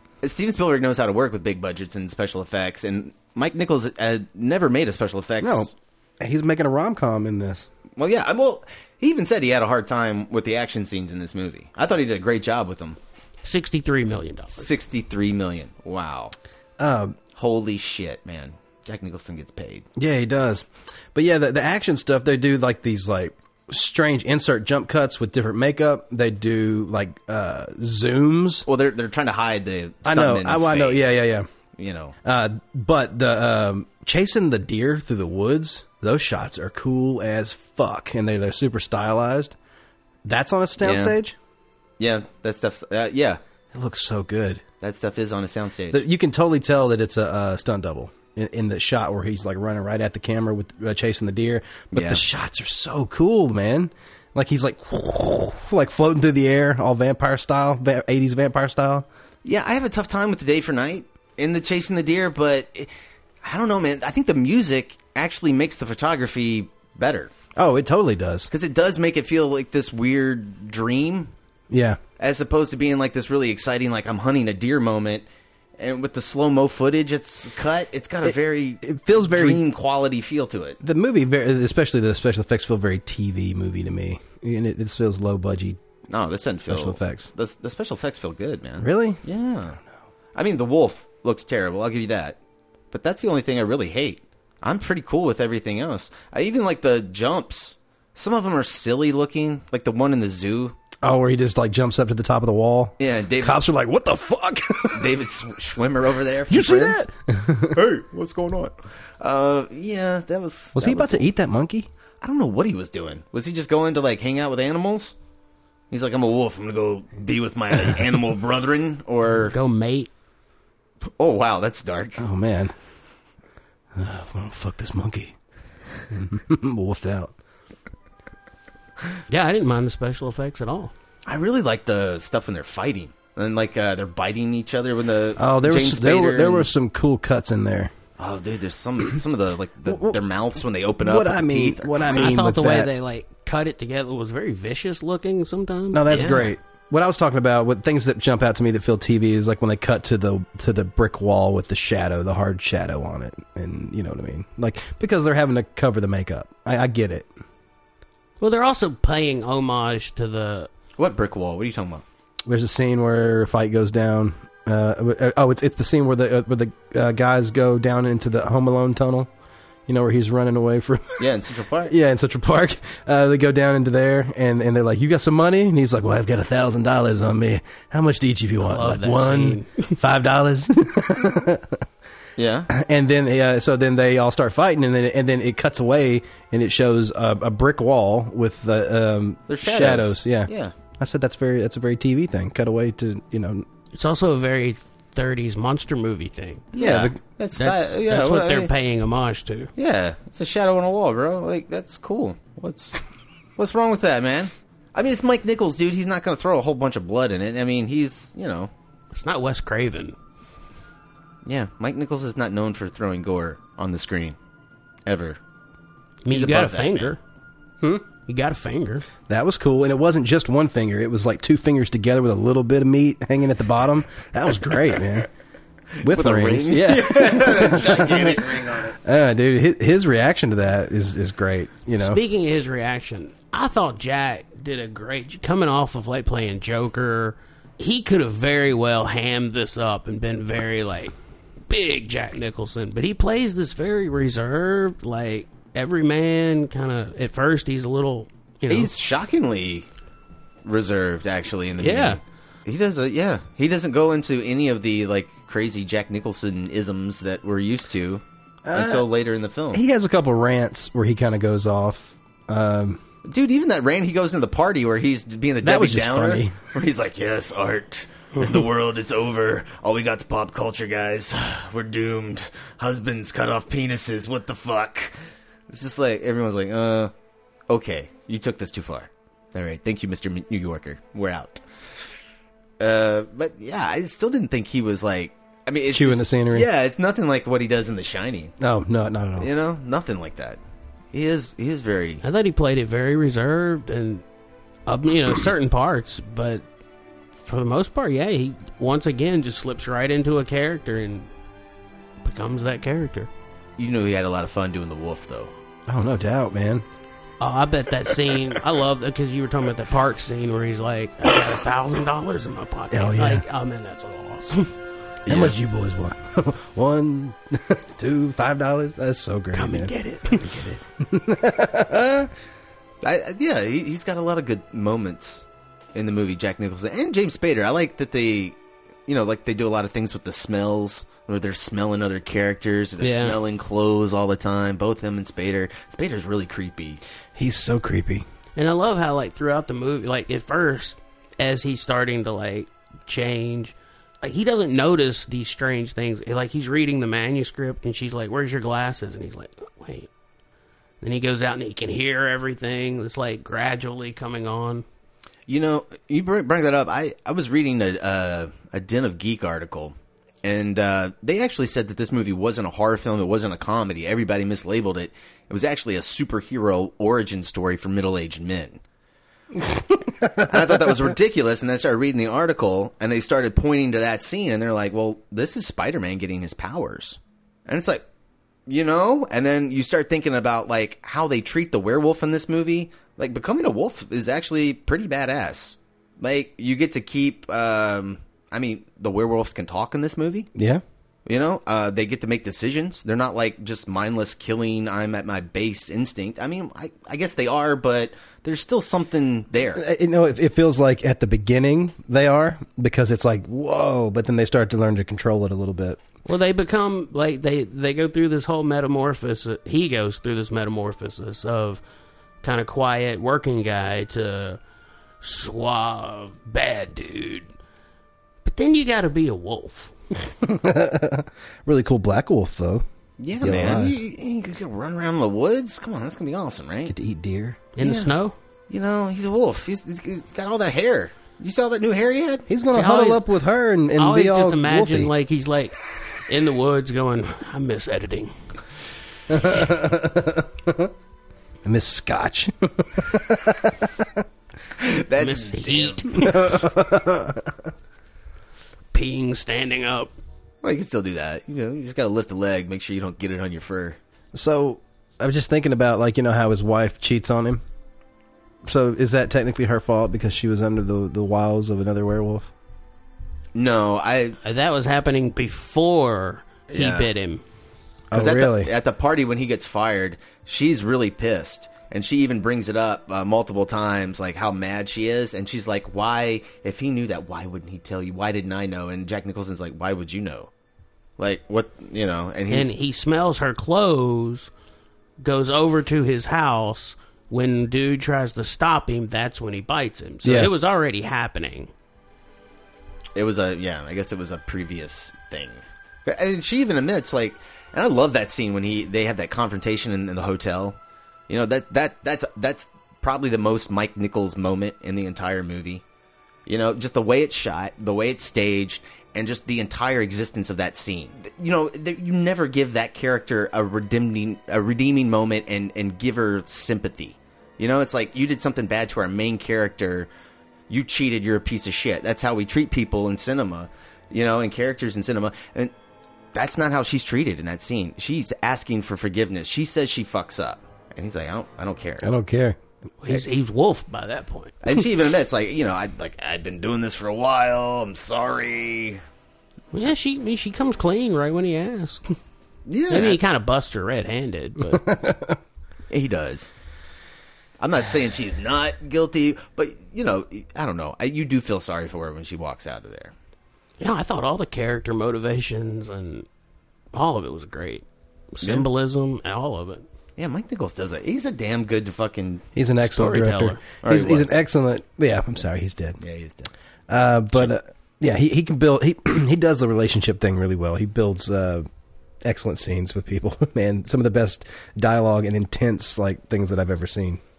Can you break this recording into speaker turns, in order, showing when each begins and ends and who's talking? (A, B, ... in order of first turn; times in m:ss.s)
0:00.2-0:05.7 A
0:05.4-0:07.7 B
0:08.0-0:13.0 A
0:13.4-0:14.7 C
0:14.5-0:16.3 A
0:16.8-0:17.2 B
0:17.3-0:19.8 A
0:20.0-0:28.7 B
0:28.6-0:31.2 A
0:30.0-0:31.5 B
0:31.8-0:32.1 A
0:32.2-0:39.6 B
0:40.2-0:41.4 B
0:40.8-0:41.2 A
0:42.0-0:43.4 A
0:43.7-0:44.6 B
0:44.8-0:46.0 A
0:45.9-0:59.1 B
0:51.9-0:52.2 A
0:59.4-1:02.9 A
1:03.4-1:07.3 A
1:07.6-1:08.5 B
1:08.5-1:11.3 A
1:11.7-1:12.0 B
1:12.2-1:15.2 A
1:15.8-1:20.8 A
1:18.2-1:19.6 B
1:20.8-1:25.8 B
1:26.1-1:29.8 A
1:26.7-1:27.3 B
1:28.8-1:29.2 B
1:30.3-1:32.4 A
1:32.9-1:40.8 A
1:41.0-1:45.2 B
1:43.0-1:43.6 A
1:44.9-1:47.1 A
1:46.5-1:47.8 B
1:47.7-1:51.3 A
1:50.7-1:51.9 B
1:52.2-1:55.1 A
1:55.9-1:59.5 A
1:59.4-2:00.1 C
2:01.2-2:02.2 A
2:02.2-2:02.7 B
2:03.9-2:05.3 B
2:06.1-2:07.3 B
2:09.3-2:10.9 C
2:11.2-2:16.7 A
2:15.4-2:17.9 B
2:18.2-2:22.3 A
2:19.9-2:20.2 B
2:21.0-2:22.9 B
2:22.0-2:26.0 C
2:25.9-2:37.3 B
2:26.1-2:26.5 A
2:38.4-2:40.7 C
2:41.0-2:42.0 A
2:42.4-2:49.3 B
2:49.9-2:51.3 B
2:51.2-2:51.9 A
2:51.9-3:01.8 B
2:58.6-2:59.9 C
3:02.4-3:02.7 A
3:02.7-3:13.6 B
3:09.5-3:10.7 A
3:13.9-3:16.8 C
3:16.8-3:18.7 A
3:16.8-3:17.2 B
3:17.6-3:19.7 C
3:19.8-3:23.0 A
3:23.6-3:28.7 A
3:29.1-3:30.2 C
3:31.4-3:34.4 A
3:35.0-3:35.4 A
3:36.2-3:37.2 C
3:36.3-3:37.1 A
3:38.2-3:39.0 C
3:39.3-3:45.3 B
3:46.0-3:52.2 B
3:46.0-3:49.0 A
3:52.0-4:01.1 C
4:01.7-4:08.9 C
4:08.7-4:09.9 A
4:10.6-4:19.8 A
4:11.8-4:12.2 C
4:18.6-4:19.1 B
4:19.7-4:23.0 B
4:23.2-4:35.1 A
4:25.6-4:26.6 B
4:35.7-4:37.1 A
4:37.7-4:41.6 A
4:42.8-4:48.5 A
4:45.9-4:46.7 B
4:48.6-4:49.5 B
4:49.4-4:50.6 A
4:51.1-4:52.2 A
4:52.2-4:54.2 C
4:54.9-4:56.6 C
4:57.4-5:01.3 C
5:02.2-5:03.3 C
5:03.8-5:05.5 A
5:05.9-5:06.8 B
5:07.4-5:14.7 C
5:12.9-5:13.4 B
5:15.2-5:15.5 A
5:15.3-5:19.9 B
5:19.5-5:20.8 C
5:21.0-5:22.3 B
5:23.0-5:28.6 A
5:29.1-5:37.0 A
5:33.0-5:33.4 C
5:37.4-5:38.2 B
5:38.6-5:50.1 C
5:51.0-5:54.8 C
5:55.5-6:08.8 A
6:10.1-6:10.9 B
6:10.3-6:18.0 A
6:18.7-6:30.5 A
6:30.5-6:30.8 B
6:31.2-6:39.8 A
6:39.7-6:46.0 B
6:46.2-6:51.8 C
6:52.4-6:54.6 C
6:55.2-6:57.5 C
6:58.4-6:59.9 C
7:00.4-7:02.8 B
7:03.2-7:06.9 A
7:03.4-7:04.0 B
7:06.9-7:07.6 B
7:07.8-7:08.3 C
7:07.8-7:08.1 A
7:08.7-7:12.5 A
7:12.5-7:15.1 B
7:12.7-7:13.2 C
7:14.0-7:15.7 C
7:16.3-7:18.3 C
7:19.3-7:20.9 B
7:21.6-7:24.2 B
7:24.8-7:26.4 A
7:25.2-7:26.5 C
7:26.3-7:27.7 B
7:28.9-7:30.1 C
7:30.6-7:34.0 A
7:34.3-7:37.6 B
7:38.6-7:42.5 B
7:43.5-7:44.4 A
7:44.4-7:47.4 C
7:46.7-7:47.1 A
7:48.1-7:48.7 B
7:48.1-8:00.5 A
8:01.2-8:02.7 A
8:02.5-8:04.5 C
8:05.2-8:11.7 C
8:10.2-8:10.5 B
8:13.2-8:20.8 A
8:21.3-8:25.8 A
8:26.4-8:40.1 A
8:40.7-8:45.7 A
8:46.3-8:52.1 A
8:52.0-8:52.6 B
8:53.0-8:54.6 C
8:54.6-8:59.0 A
8:59.7-9:02.2 C
9:02.7-9:03.2 A
9:02.9-9:04.9 C
9:04.7-9:05.4 B
9:05.9-9:06.5 A
9:07.6-9:13.1 A
9:13.8-9:16.2 C
9:16.9-9:19.8 C
9:18.4-9:18.7 A
9:20.2-9:22.5 A
9:22.5-9:26.0 B
9:22.8-9:23.6 C
9:23.8-9:24.4 A
9:26.0-9:26.5 A
9:26.9-9:31.7 B
9:32.2-9:37.2 B